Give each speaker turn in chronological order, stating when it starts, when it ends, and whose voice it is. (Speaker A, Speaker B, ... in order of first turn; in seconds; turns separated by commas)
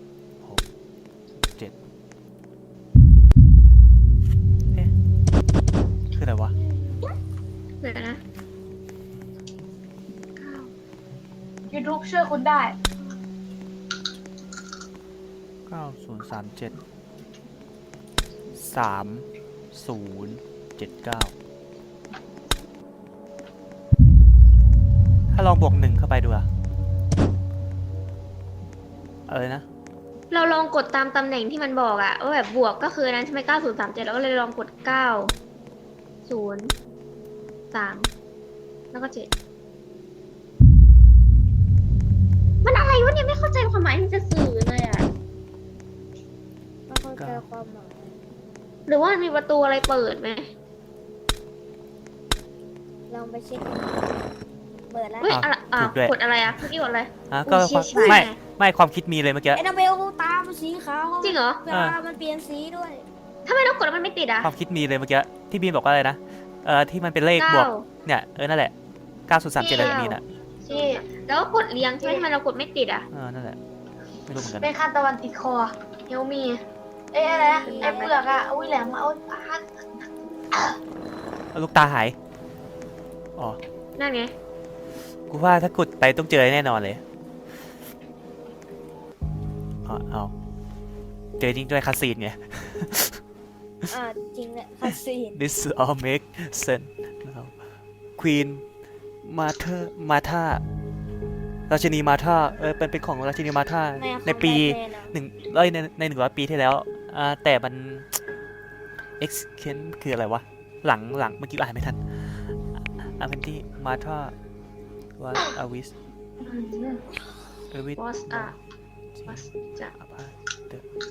Speaker A: 6.2-6.5, Speaker B: 6.5-7.1, Speaker B: 7.8-8.2, Speaker B: 10.4-10.7, Speaker C: 11.7-12.8, Speaker A: 15.7-16.8, Speaker A: 18.5-21.3, Speaker A: 25.3-26.5, Speaker A: 29.3-29.6, Speaker B: 30.3-35.3, Speaker B: 36.3-36.7, Speaker B: 37.7-38.1, Speaker B: 38.9-39.3, Speaker B: 42.6-45.1, Speaker D: 46.9-48.2, Speaker A: 47.2-47.4, Speaker B: 48.9-50.5, Speaker D: 53.1-53.9, Speaker D: 54.9-55.4, Speaker B: 55.2-58.4, Speaker A: 55.3-56.2, Speaker A: 57.3-59.6, Speaker D: 59.5-63.1, Speaker B: 61.2-61.6, Speaker A: 61.7-62.0, Speaker B: 63.5-64.5, Speaker A: 64.4-68.7, Speaker B: 67.4-67.9, Speaker A: 69.3-70.2, Speaker C: 69.6-70.1, Speaker B: 69.7-73.1, Speaker C: 70.6-71.0, Speaker C: 72.0-72.3, Speaker A: 73.1-73.6, Speaker A: 74.3-74.7, Speaker C: 74.6-79.7, Speaker D: 77.2-78.9, Speaker B: 77.6-78.3, Speaker A: 81.5-82.2, Speaker B: 84.0-84.3, Speaker A: 85.3-87.0, Speaker A: 89.9-90.3, Speaker A: 91.4-93.2, Speaker D: 93.9-95.4, Speaker A: 94.8-97.5, Speaker A: 98.2-98.6, Speaker A: 99.2-100.6, Speaker A: 101.7-108.1, Speaker D: 104.0-105.2, Speaker A: 109.2-114.3, Speaker A: 115.2-115.9, Speaker C: 116.4-117.0, Speaker A: 117.7-118.5, Speaker B: 118.0-118.6, Speaker A: 119.2-120.8, Speaker B: 119.3-119.9